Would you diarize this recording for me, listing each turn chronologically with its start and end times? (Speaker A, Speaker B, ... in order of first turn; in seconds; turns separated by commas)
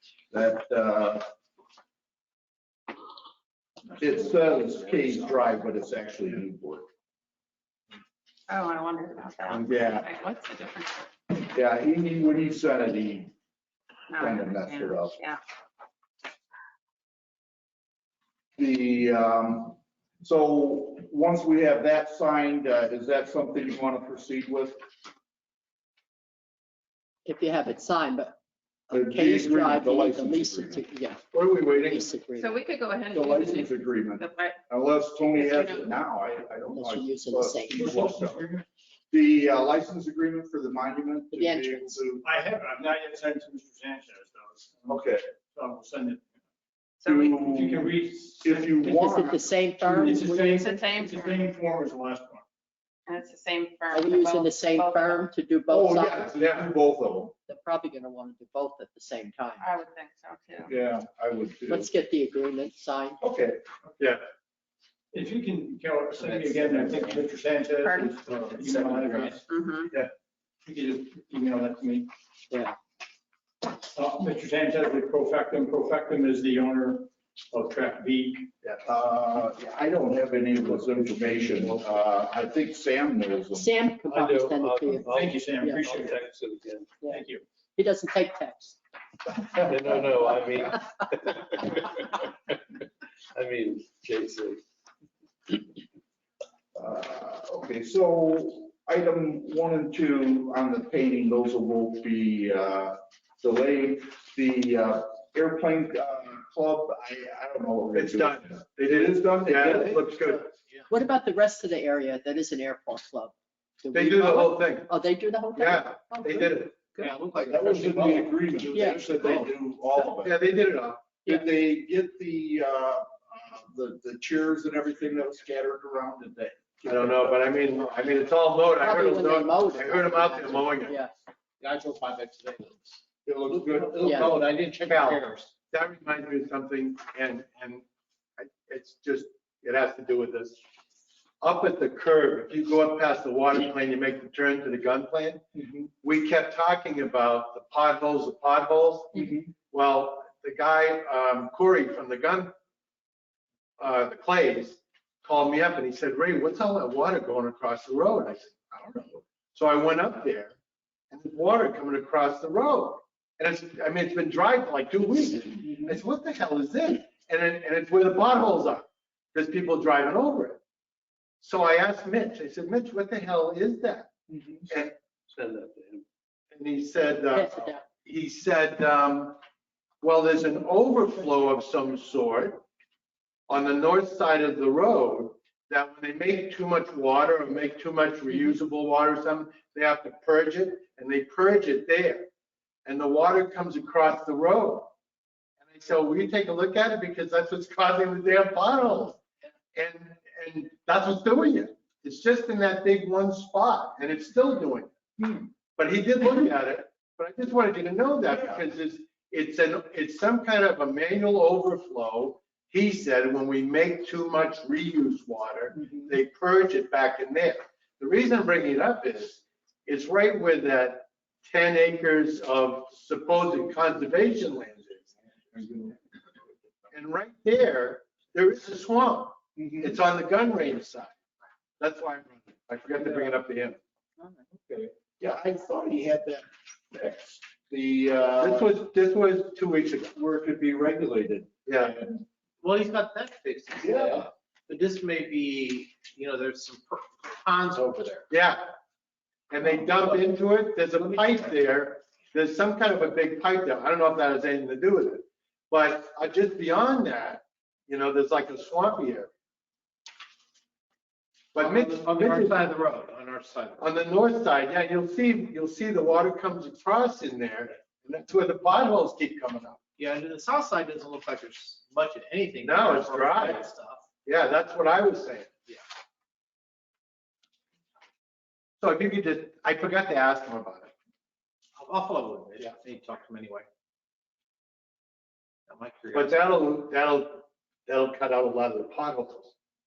Speaker A: 0.3-1.3, Speaker A: 4.0-6.9, Speaker B: 8.5-11.1, Speaker A: 9.5-10.1, Speaker A: 11.4-13.3, Speaker B: 14.1-15.4, Speaker A: 14.2-15.2, Speaker A: 18.6-24.8, Speaker C: 27.2-28.4, Speaker C: 28.9-32.6, Speaker A: 28.9-30.9, Speaker D: 31.3-32.1, Speaker B: 32.4-34.6, Speaker A: 33.1-38.5, Speaker B: 35.4-35.9, Speaker C: 36.7-37.8, Speaker E: 37.7-38.6, Speaker A: 39.1-42.2, Speaker C: 41.3-42.0, Speaker E: 42.2-46.3, Speaker A: 44.9-45.3, Speaker B: 47.0-47.4, Speaker A: 47.0-49.4, Speaker E: 47.3-49.2, Speaker C: 48.8-50.6, Speaker E: 49.8-52.4, Speaker B: 50.6-51.5, Speaker B: 53.1-55.3, Speaker C: 53.9-56.3, Speaker A: 55.7-57.4, Speaker D: 56.3-56.7, Speaker C: 57.5-59.7, Speaker B: 59.6-60.8, Speaker A: 60.6-61.9, Speaker C: 61.7-63.2, Speaker A: 63.2-63.6, Speaker E: 65.1-70.1, Speaker A: 66.2-67.2, Speaker B: 67.8-68.5, Speaker A: 68.6-69.3, Speaker C: 69.5-69.9, Speaker E: 70.7-72.1, Speaker C: 72.5-72.8, Speaker E: 73.7-78.5, Speaker A: 78.8-83.7, Speaker C: 83.5-85.8, Speaker F: 84.1-86.9, Speaker E: 85.1-86.3, Speaker E: 87.1-87.4, Speaker C: 87.8-88.8, Speaker F: 89.7-92.3, Speaker F: 93.4-94.6, Speaker A: 96.8-110.0, Speaker D: 107.9-110.5, Speaker C: 110.9-117.0, Speaker D: 113.9-114.9, Speaker D: 115.6-117.0, Speaker G: 117.0-119.5, Speaker A: 117.3-120.5, Speaker C: 118.7-119.1, Speaker D: 120.0-121.1, Speaker A: 121.2-127.4, Speaker D: 126.9-131.0, Speaker C: 128.8-131.1, Speaker G: 131.6-135.6, Speaker A: 133.3-134.4, Speaker C: 134.0-134.3, Speaker D: 134.9-137.8, Speaker D: 138.4-140.6, Speaker D: 141.4-145.4, Speaker D: 146.0-152.5, Speaker D: 153.8-160.6, Speaker D: 161.1-170.6, Speaker D: 171.4-174.1, Speaker D: 174.7-174.9, Speaker F: 175.3-176.0, Speaker D: 176.5-179.4, Speaker C: 177.3-177.8, Speaker D: 180.0-182.6, Speaker D: 183.5-192.3, Speaker D: 192.9-194.9, Speaker D: 195.6-199.2, Speaker D: 199.8-204.9, Speaker D: 205.7-225.1, Speaker A: 208.3-208.6, Speaker A: 225.5-226.0, Speaker D: 226.9-231.1, Speaker A: 229.6-230.0, Speaker D: 231.8-233.8, Speaker A: 232.9-233.3, Speaker A: 234.7-238.8, Speaker D: 238.4-240.2, Speaker A: 240.2-241.5, Speaker D: 241.7-242.1, Speaker G: 242.6-248.3, Speaker D: 243.8-244.2, Speaker D: 248.3-248.7, Speaker D: 249.5-259.3, Speaker G: 250.0-250.2, Speaker G: 250.9-251.3, Speaker D: 261.5-262.7, Speaker G: 261.6-263.9, Speaker D: 263.8-269.8, Speaker G: 270.0-274.1, Speaker D: 272.6-273.6, Speaker D: 274.2-275.6, Speaker D: 278.8-280.9, Speaker G: 281.8-283.7, Speaker G: 285.7-286.6, Speaker D: 286.1-289.5